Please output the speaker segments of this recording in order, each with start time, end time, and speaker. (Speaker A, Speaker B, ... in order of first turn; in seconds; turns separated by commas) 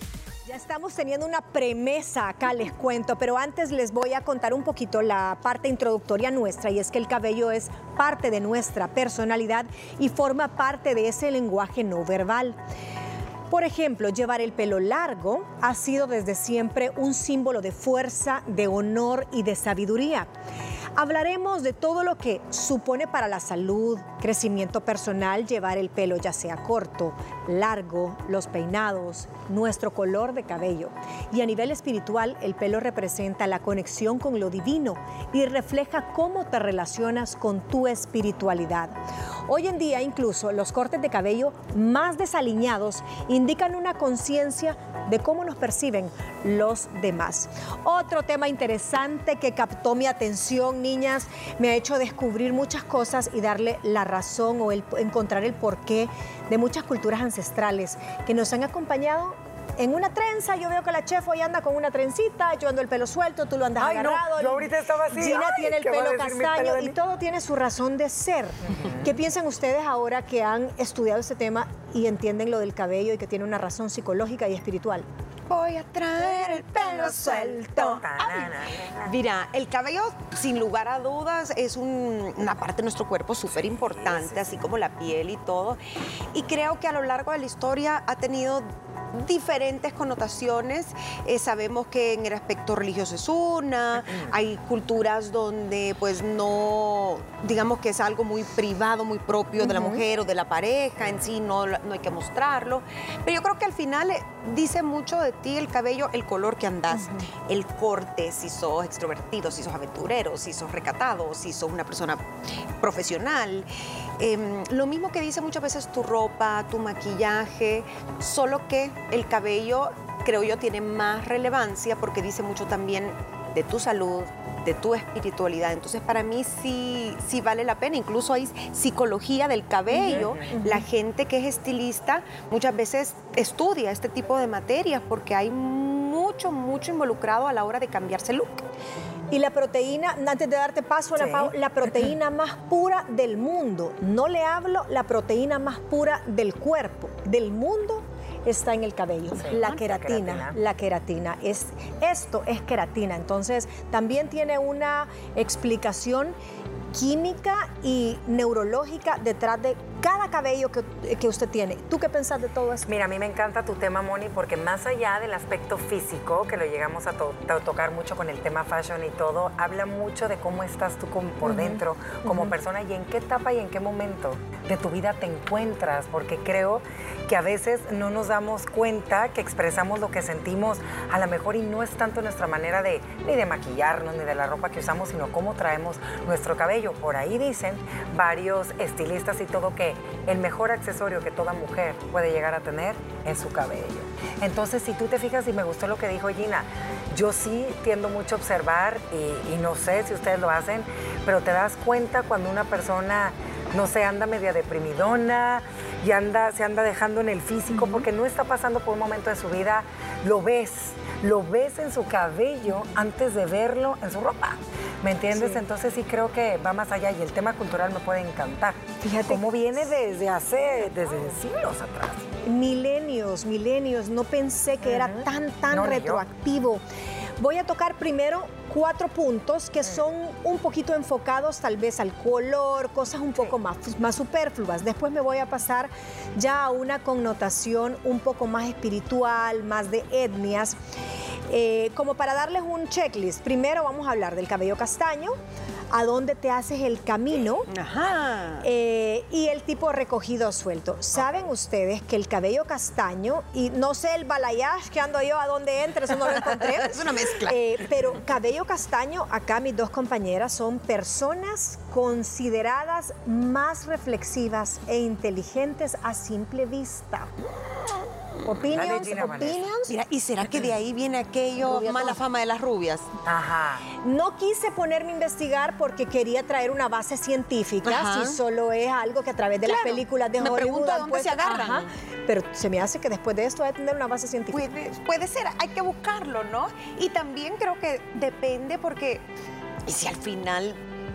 Speaker A: 0.5-12.6, Speaker A: 13.5-20.3, Speaker A: 21.0-38.9, Speaker A: 39.5-75.1, Speaker B: 63.8-67.0, Speaker B: 68.7-69.2, Speaker C: 75.5-85.8, Speaker A: 76.2-78.0, Speaker B: 77.8-79.2, Speaker B: 83.5-84.4, Speaker C: 86.3-112.2, Speaker A: 99.6-100.0, Speaker A: 106.9-107.3, Speaker C: 112.8-113.7, Speaker C: 114.2-138.7, Speaker A: 129.9-130.8, Speaker A: 139.3-156.3, Speaker B: 141.2-141.5, Speaker B: 149.3-150.6, Speaker A: 156.9-162.9, Speaker B: 162.9-222.2, Speaker A: 171.4-172.5, Speaker A: 207.7-208.1, Speaker A: 215.3-215.6, Speaker A: 219.0-219.7, Speaker A: 222.4-226.8, Speaker B: 224.8-226.2, Speaker A: 227.4-240.8, Speaker A: 241.5-245.4, Speaker A: 245.9-247.7, Speaker C: 247.7-248.7, Speaker A: 248.6-267.3, Speaker C: 256.2-258.0, Speaker A: 268.4-269.9, Speaker B: 268.7-269.7, Speaker C: 269.9-273.1, Speaker A: 271.6-272.2, Speaker B: 273.2-273.9, Speaker A: 274.0-284.7, Speaker C: 277.9-278.4, Speaker C: 279.6-281.9, Speaker C: 284.5-289.2, Speaker C: 289.9-290.8